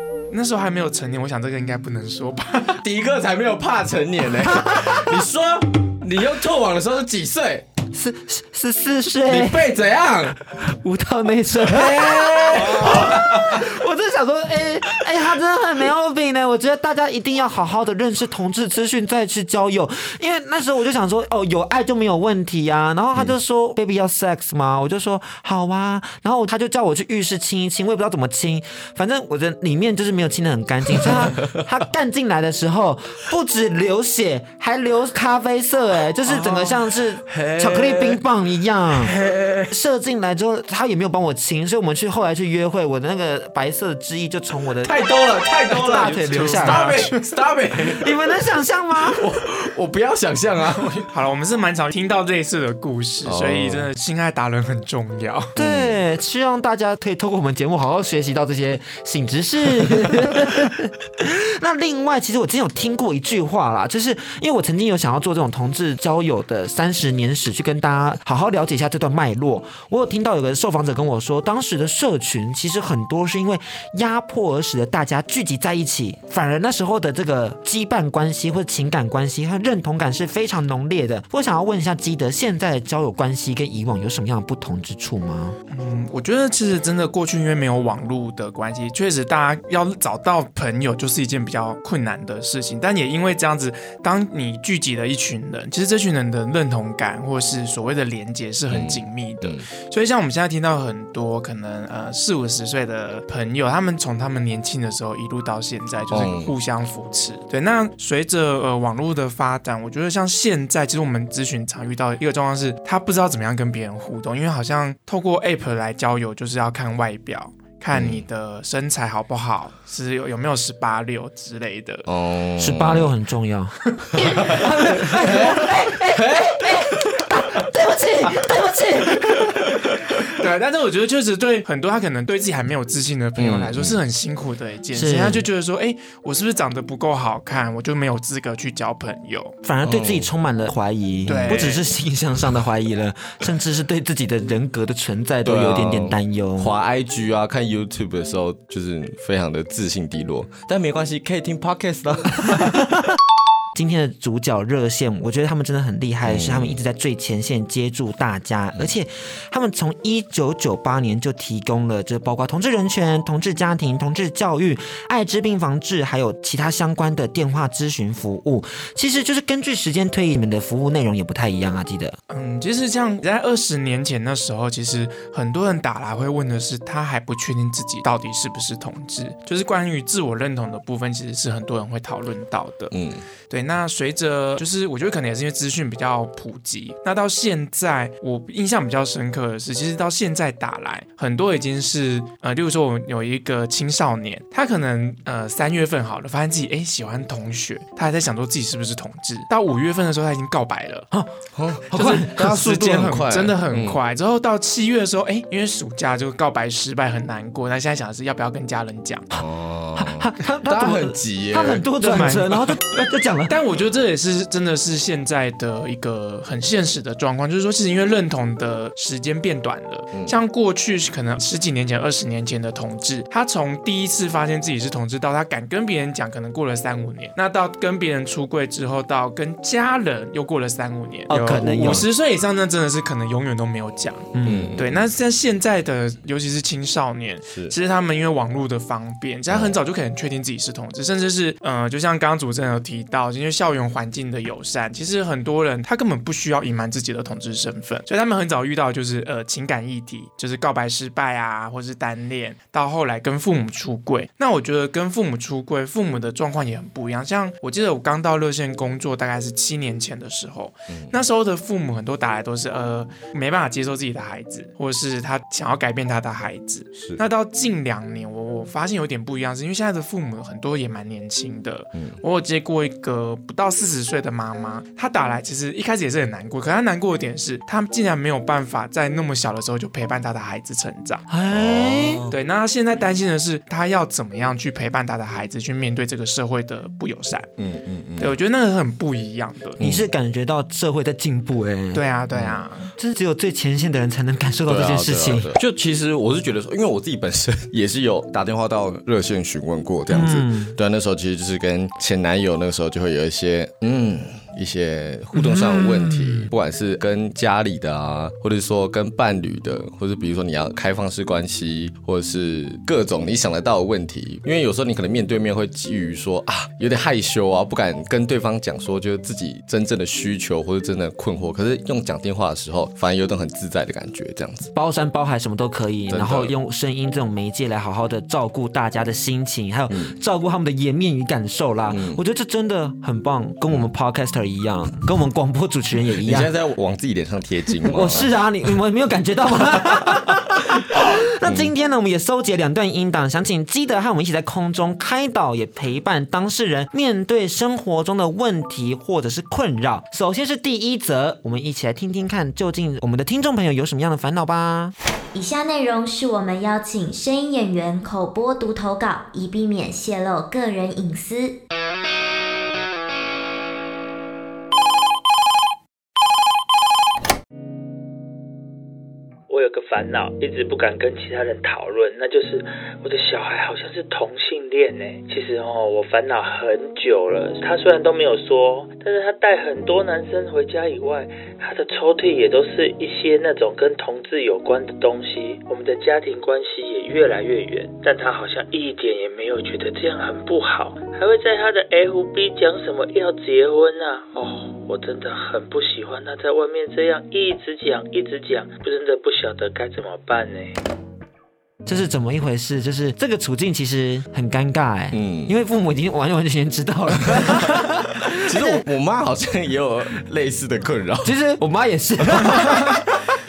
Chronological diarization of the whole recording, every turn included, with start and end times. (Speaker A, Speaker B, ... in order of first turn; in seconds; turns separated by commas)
Speaker A: 0.3-2.8, Speaker B: 2.8-7.7, Speaker C: 4.4-5.1, Speaker C: 7.9-9.6, Speaker B: 9.3-10.4, Speaker C: 10.6-39.1, Speaker B: 11.7-13.6, Speaker B: 30.9-31.6, Speaker B: 36.2-38.2, Speaker B: 38.9-39.7, Speaker C: 39.7-44.9, Speaker B: 44.8-48.1, Speaker C: 45.7-47.0, Speaker A: 45.7-47.3, Speaker C: 47.9-49.2, Speaker B: 49.0-51.0, Speaker A: 50.8-55.5, Speaker B: 53.2-53.9, Speaker B: 55.6-56.0, Speaker C: 55.6-85.5, Speaker A: 85.7-122.0, Speaker B: 98.7-99.7, Speaker B: 106.1-106.5, Speaker B: 117.9-118.2, Speaker B: 122.1-123.1, Speaker C: 122.6-129.7, Speaker B: 124.1-126.7, Speaker A: 130.3-139.6, Speaker B: 133.4-134.0, Speaker C: 134.9-135.4, Speaker C: 139.6-146.7, Speaker B: 139.8-140.3, Speaker A: 141.2-141.8, Speaker B: 141.3-141.7, Speaker B: 145.4-152.8, Speaker C: 153.7-172.2, Speaker B: 156.2-156.8, Speaker A: 172.3-182.9, Speaker B: 182.9-183.2, Speaker A: 183.5-201.1, Speaker B: 201.5-204.0, Speaker C: 201.9-202.3, Speaker A: 201.9-209.3, Speaker B: 209.4-212.3, Speaker C: 209.9-213.5, Speaker A: 212.0-212.5, Speaker A: 213.5-281.2, Speaker C: 231.3-232.1, Speaker C: 234.3-234.8, Speaker B: 234.4-235.0, Speaker B: 239.5-239.7, Speaker C: 281.3-282.2, Speaker B: 281.5-282.4, Speaker A: 282.3-287.5, Speaker B: 287.6-288.3, Speaker A: 288.2-289.8, Speaker B: 289.8-290.1, Speaker C: 289.8-292.0, Speaker A: 291.9-292.9, Speaker B: 292.3-292.6, Speaker C: 293.0-295.6, Speaker B: 294.7-324.7, Speaker C: 300.1-300.7, Speaker C: 305.3-306.5, Speaker C: 324.7-336.5, Speaker B: 326.1-326.5, Speaker B: 329.9-330.1, Speaker B: 331.9-332.2, Speaker B: 336.2-338.3, Speaker C: 337.8-354.9, Speaker B: 341.4-341.7, Speaker D: 355.3-361.6, Speaker E: 369.5-400.8, Speaker C: 401.9-408.8, Speaker B: 405.1-405.5, Speaker B: 408.3-411.3, Speaker C: 411.2-413.1